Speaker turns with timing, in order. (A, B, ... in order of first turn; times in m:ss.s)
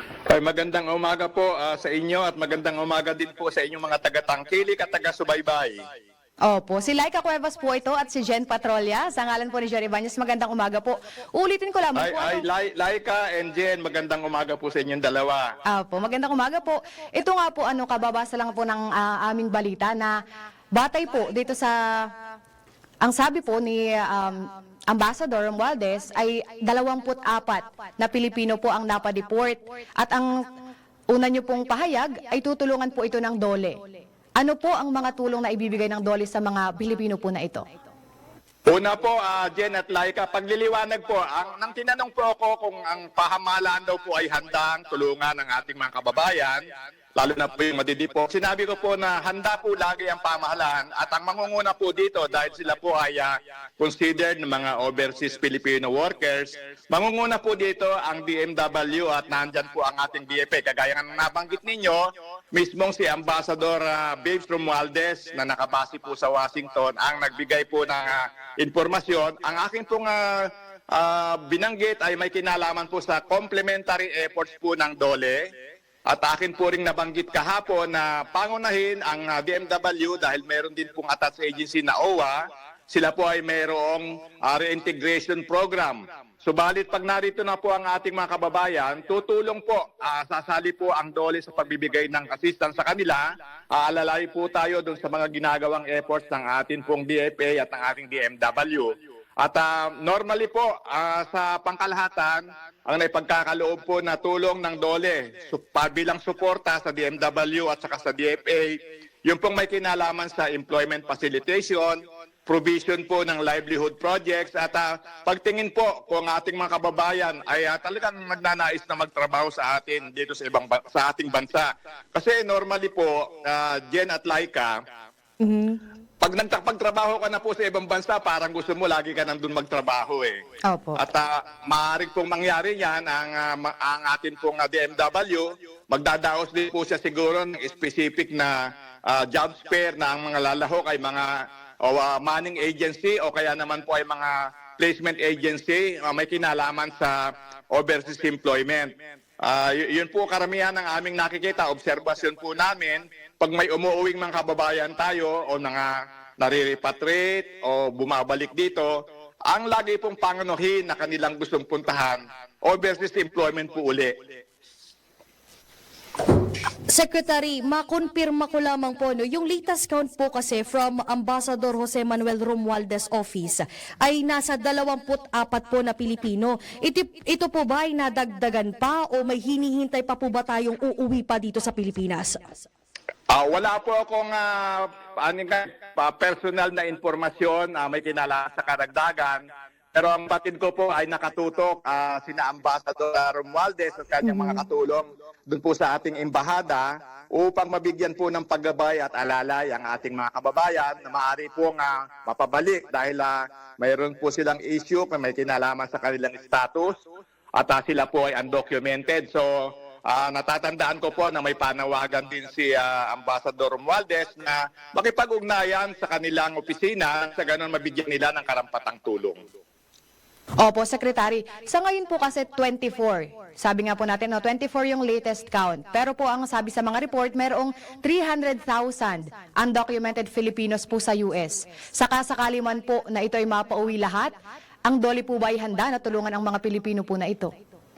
0:00.3-0:05.8 A
0:06.4-0:12.4 B
0:12.0-0:15.5 A
0:15.6-0:20.2 B
0:20.7-0:22.1 B
0:23.0-0:30.3 B
0:31.1-0:33.8 B
0:34.4-0:37.6 B
0:38.7-0:46.6 A
0:47.2-1:15.4 A
1:16.1-2:04.8 A
2:05.4-2:05.8 C
2:06.2-2:10.4 A
2:10.7-2:11.0 B
2:11.0-2:39.0 A
2:39.5-2:44.2 A
2:46.9-3:02.4 C
3:03.3-3:26.9 A
3:14.3-3:14.6 C
3:27.6-3:39.4 A
3:40.6-3:54.3 B
3:54.9-3:57.5 B